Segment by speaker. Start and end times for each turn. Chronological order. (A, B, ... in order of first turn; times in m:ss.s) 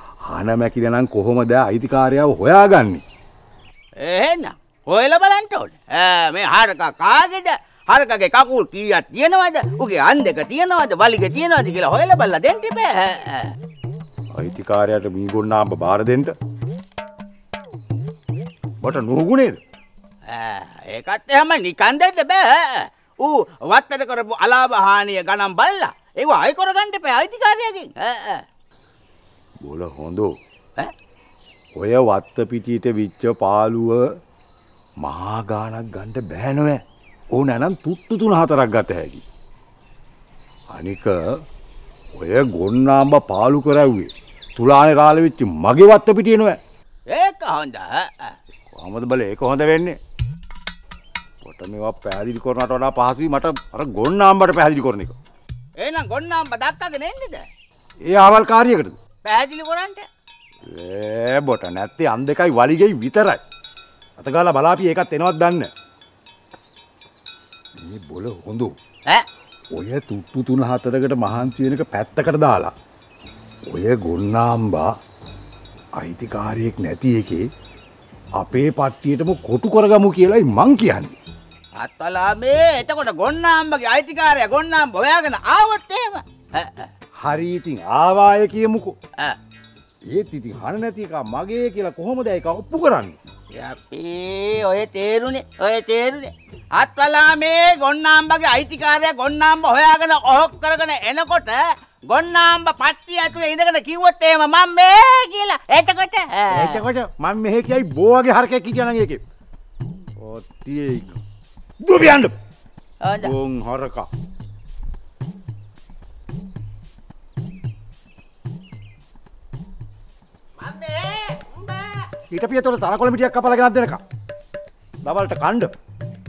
0:00.3-0:03.0 A
0:04.0-0:13.5 B
0:14.3-0:16.3 A
0:18.8-0:19.6 A
0:20.3-0:28.4 B
0:29.6-0:30.3 A
0:31.8-0:34.0 A
0:35.0-0:36.8 A
0:37.3-0:39.2 A
0:40.7-0:41.1 A
0:42.2-0:46.6 A
0:47.1-0:48.3 B
0:48.7-0:50.0 A
0:51.4-0:55.1 A
0:55.8-0:57.4 B
0:58.1-0:59.0 A
0:59.2-1:00.0 B
1:00.6-1:03.4 A
1:04.2-1:05.7 A
1:07.8-1:08.7 A
1:09.7-1:12.7 A
1:13.7-1:14.8 A
1:16.0-1:17.4 A
1:18.4-1:21.2 A
1:21.8-1:26.9 B
1:27.2-1:28.9 A
1:30.1-1:33.2 A
1:33.6-1:46.8 B
1:46.5-1:49.2 A
1:50.2-1:51.2 A
1:51.8-1:52.3 A
1:53.0-1:53.3 B
1:53.2-1:54.1 A
2:00.6-2:02.0 B
2:02.3-2:04.0 A
2:05.0-2:05.7 A